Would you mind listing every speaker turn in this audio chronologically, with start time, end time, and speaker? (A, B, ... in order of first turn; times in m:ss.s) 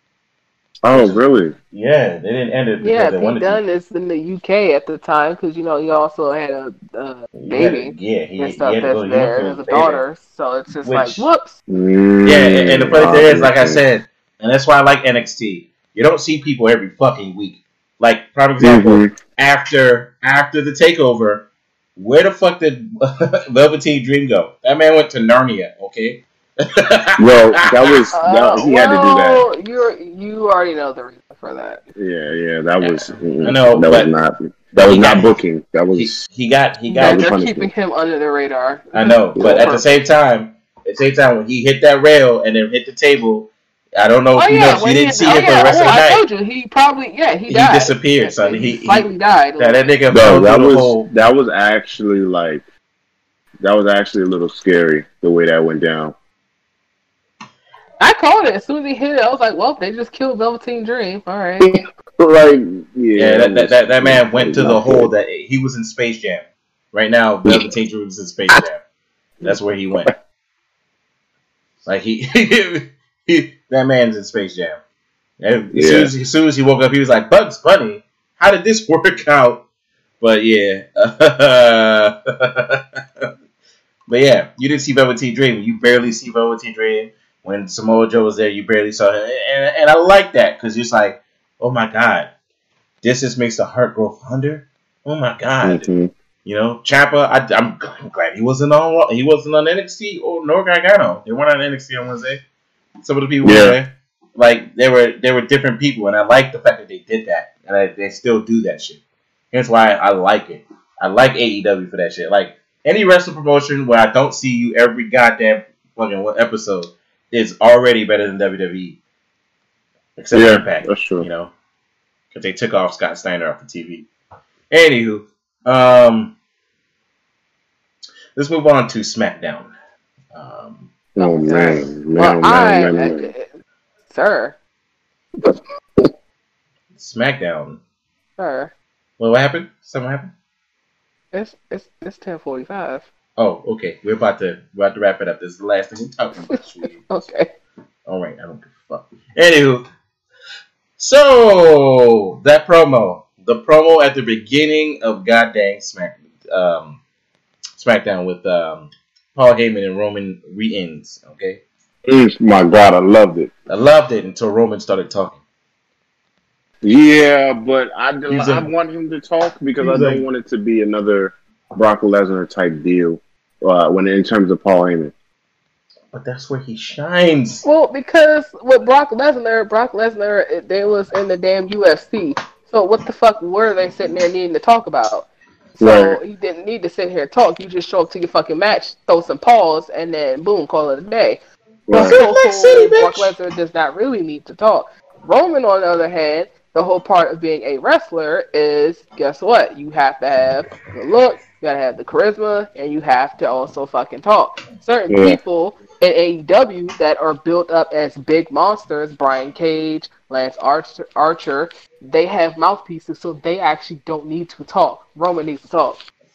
0:00.8-0:01.5 A
0:00.9-0:01.2 B
0:01.7-0:03.6 B
0:02.8-0:11.5 C
0:07.4-0:10.0 B
0:10.8-0:11.3 B
0:11.7-0:13.8 A
0:12.2-0:21.4 B
0:18.6-0:19.1 A
0:22.0-0:27.9 B
0:27.2-0:29.5 A
0:28.1-0:31.8 C
0:31.9-0:36.2 A
0:32.8-0:34.1 B
0:34.8-0:35.4 B
0:35.9-0:37.3 B
0:36.9-0:39.9 C
0:36.9-0:37.7 A
0:38.9-0:46.2 B
0:39.4-0:39.7 A
0:44.4-0:49.8 C
0:47.5-0:51.0 B
0:50.1-0:52.6 A
0:53.6-0:56.2 A
0:58.0-1:01.7 C
1:01.6-1:05.1 A
1:03.1-1:08.8 B
1:09.4-1:10.1 A
1:09.4-1:10.1 B
1:11.8-1:14.8 B
1:15.4-1:19.6 B
1:15.7-1:16.1 A
1:20.2-1:23.3 B
1:24.1-1:32.3 B
1:33.0-1:35.9 B
1:35.6-1:36.1 A
1:36.4-1:42.4 B
1:43.0-1:49.0 B
1:43.4-1:43.8 A
1:49.5-1:59.0 B
2:00.2-2:01.5 B
2:00.3-2:01.3 A
2:02.3-2:04.1 B
2:04.7-2:06.3 B
2:08.3-2:09.7 B
2:10.3-2:10.9 B
2:11.2-2:13.3 A
2:11.2-2:13.5 C
2:14.1-2:14.6 C
2:15.4-2:16.1 A
2:17.0-2:17.8 B
2:18.4-2:18.7 C
2:19.2-2:20.3 B
2:21.3-2:23.1 C
2:23.4-2:27.1 B
2:27.1-2:27.5 C
2:28.1-2:29.8 B
2:31.0-2:37.0 B
2:37.8-2:41.6 B
2:42.0-2:43.5 A
2:43.7-2:45.4 B
2:46.8-2:55.1 A
2:48.3-2:48.7 B
2:49.8-2:50.2 B
2:56.1-2:57.6 B
2:57.6-3:05.3 C
3:05.8-3:11.4 C
3:05.8-3:06.2 A
3:11.9-3:12.2 A
3:11.9-3:13.3 B
3:11.9-3:36.0 C
3:25.1-3:25.4 A